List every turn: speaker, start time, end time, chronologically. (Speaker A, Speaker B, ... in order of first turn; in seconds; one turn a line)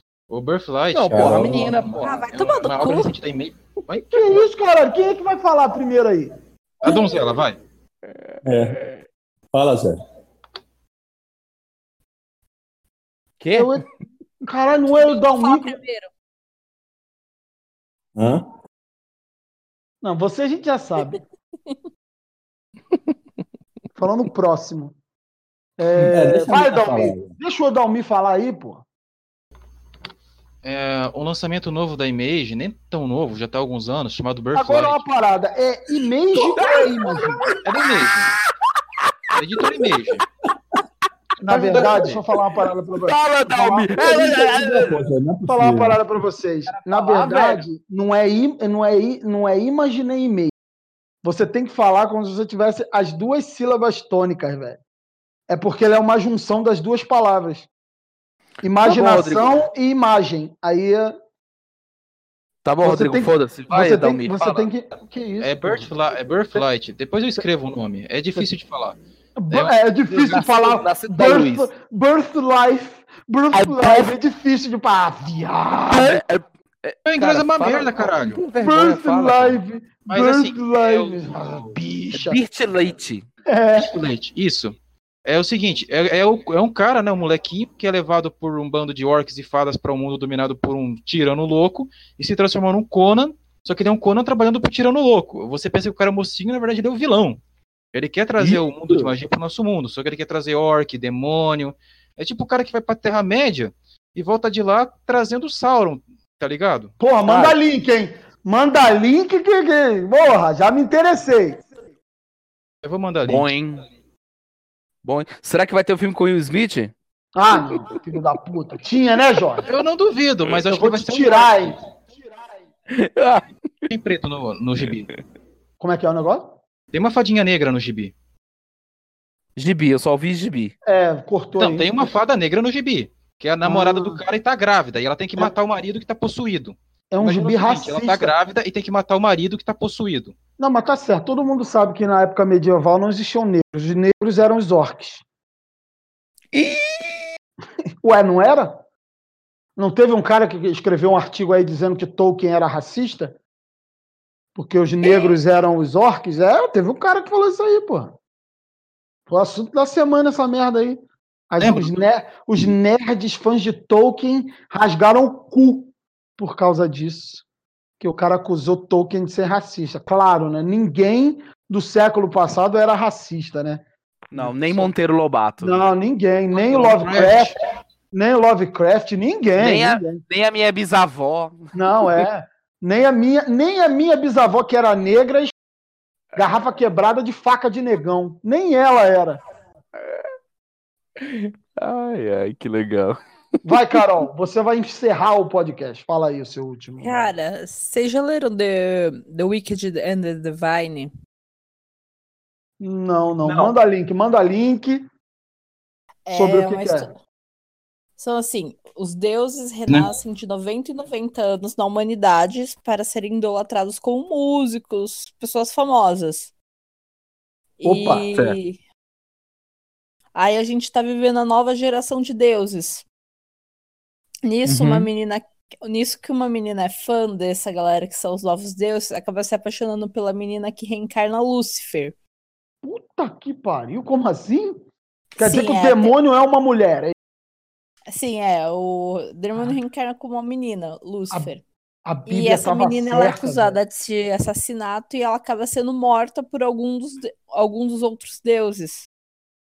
Speaker A: 0.3-4.4
Speaker B: 0.9-2.2
Speaker C: 1.1-1.6
Speaker D: 1.9-3.1
Speaker E: 4.1-6.3
Speaker A: 6.8-7.6
Speaker C: 8.4-8.8
Speaker C: 9.5-10.0
Speaker B: 13.4-13.8
Speaker E: 13.5-13.8
Speaker E: 14.4-15.8
Speaker D: 14.8-16.1
Speaker C: 18.1-18.5
Speaker E: 20.0-21.2
Speaker E: 23.9-24.9
Speaker E: 25.8-28.8
Speaker C: 26.0-27.3
Speaker A: 30.6-35.0
Speaker E: 34.5-37.4
Speaker B: 36.6-36.9
Speaker A: 37.6-38.3
Speaker A: 39.4-40.2
Speaker E: 41.4-44.5
Speaker A: 41.5-42.2
Speaker B: 41.6-42.2
Speaker B: 43.0-45.0
Speaker C: 44.1-46.0
Speaker E: 45.5-50.5
Speaker B: 46.7-47.6
Speaker E: 51.2-54.8
Speaker E: 55.5-57.7
Speaker E: 58.6-61.1
Speaker B: 58.8-59.6
Speaker B: 62.6-64.7
Speaker E: 62.8-65.9
Speaker A: 65.4-69.0
Speaker E: 69.4-76.2
Speaker B: 70.1-71.7
Speaker B: 73.5-74.1
Speaker B: 75.9-79.6
Speaker A: 77.0-78.4
Speaker E: 78.6-82.4
Speaker A: 80.1-81.8
Speaker B: 82.1-83.3
Speaker E: 83.5-84.0
Speaker A: 83.8-97.4
Speaker A: 97.9-107.4
Speaker E: 107.0-111.7
Speaker A: 112.8-113.5
Speaker B: 113.2-113.8
Speaker B: 115.0-116.9
Speaker E: 117.3-119.7
Speaker A: 119.6-121.8
Speaker E: 120.7-122.5
Speaker B: 122.9-123.5
Speaker A: 123.9-125.1
Speaker E: 125.8-126.6
Speaker A: 126.9-128.1
Speaker B: 129.6-130.7
Speaker E: 130.8-132.1
Speaker A: 131.6-140.3
Speaker E: 133.6-134.2
Speaker E: 137.1-138.3
Speaker E: 140.6-145.2
Speaker B: 146.5-147.2
Speaker E: 148.0-148.8
Speaker E: 149.8-153.3
Speaker E: 154.6-158.2
Speaker E: 159.3-167.4
Speaker A: 161.6-161.9
Speaker E: 168.0-173.8
Speaker B: 174.3-175.9
Speaker E: 174.3-174.9
Speaker E: 175.6-177.6
Speaker A: 176.5-177.5
Speaker E: 178.1-180.2
Speaker B: 179.6-182.2
Speaker E: 181.7-185.5
Speaker E: 186.3-189.4
Speaker B: 191.2-193.2
Speaker E: 193.6-197.3
Speaker D: 197.0-201.1
Speaker E: 202.8-205.1
Speaker B: 203.4-203.8
Speaker D: 206.2-207.1
Speaker E: 206.3-207.1
Speaker D: 208.2-216.5
Speaker D: 217.8-218.8
Speaker E: 217.8-218.2
Speaker D: 220.3-223.1
Speaker D: 224.4-232.1
Speaker B: 224.7-225.1
Speaker E: 232.8-234.8
Speaker D: 235.4-236.1
Speaker E: 235.4-237.1
Speaker D: 238.1-241.6
Speaker E: 242.0-243.8
Speaker D: 242.3-249.1